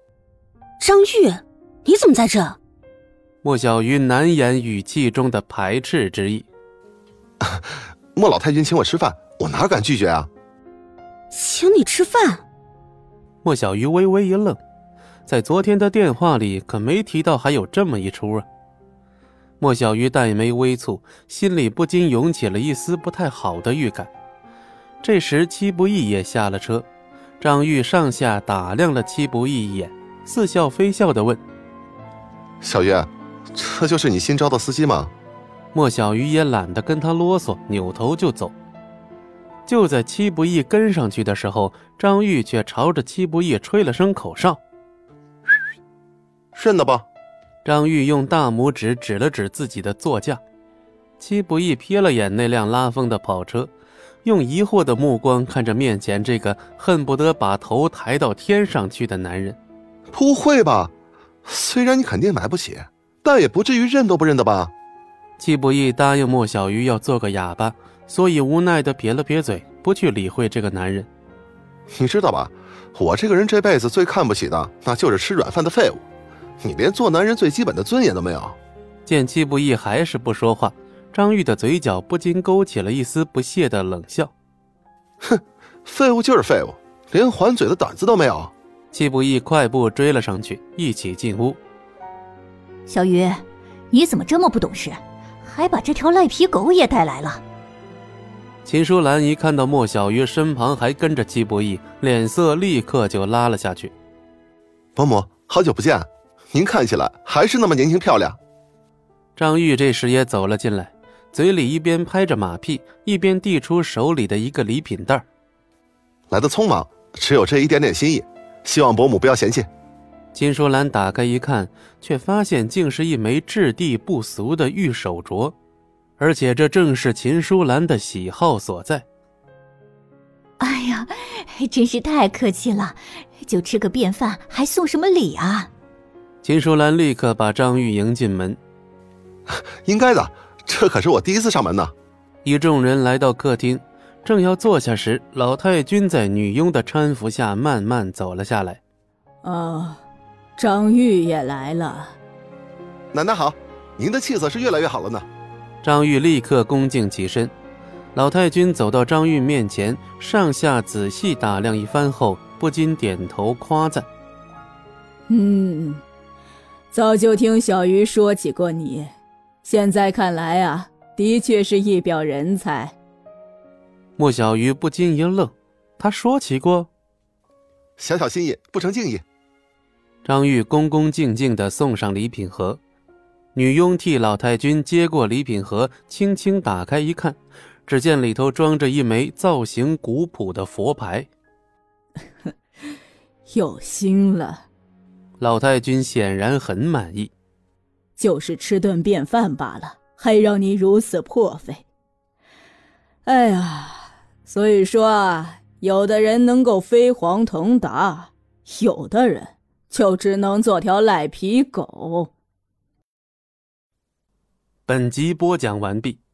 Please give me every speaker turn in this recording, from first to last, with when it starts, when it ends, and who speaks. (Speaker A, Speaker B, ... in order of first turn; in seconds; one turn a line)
Speaker A: 0.8-2.6
Speaker B: 3.4-6.5
Speaker C: 7.4-10.3
Speaker A: 11.3-12.4
Speaker B: 13.4-14.6
Speaker B: 15.3-18.4
Speaker B: 19.6-24.1
Speaker B: 25.0-26.9
Speaker B: 27.4-31.4
Speaker C: 32.6-35.1
Speaker B: 35.7-38.5
Speaker B: 39.7-44.6
Speaker C: 46.5-47.0
Speaker B: 47.6-50.4
Speaker B: 51.2-53.7
Speaker B: 54.2-59.6
Speaker C: 60.1-60.9
Speaker C: 61.5-64.7
Speaker B: 65.4-71.1
Speaker C: 71.9-76.0
Speaker C: 76.6-78.5
Speaker B: 79.0-84.3
Speaker C: 85.2-88.5
Speaker B: 88.9-91.6
Speaker D: 92.9-97.4
Speaker B: 98.6-103.9
Speaker C: 105.0-108.4
Speaker B: 109.3-115.2
Speaker C: 116.3-119.7
Speaker B: 120.3-125.5
Speaker B: 126.2-129.1
Speaker D: 130.6-135.7
Speaker B: 136.4-138.6
Speaker C: 139.5-141.9
Speaker B: 142.4-148.8
Speaker E: 149.4-150.0
Speaker E: 150.6-152.2
Speaker C: 153.1-155.3
Speaker B: 155.8-157.5
Speaker B: 158.1-164.1
Speaker E: 165.3-166.0
Speaker E: 166.9-169.1
Speaker E: 169.6-172.9
Speaker B: 174.2-176.9
Speaker C: 178.0-179.2
Speaker B: 180.2-182.8
Speaker B: 183.5-191.3
Speaker E: 193.5-194.6
Speaker B: 195.4-197.3
Speaker E: 198.2-201.8
Speaker E: 203.2-212.3
Speaker B: 214.9-216.2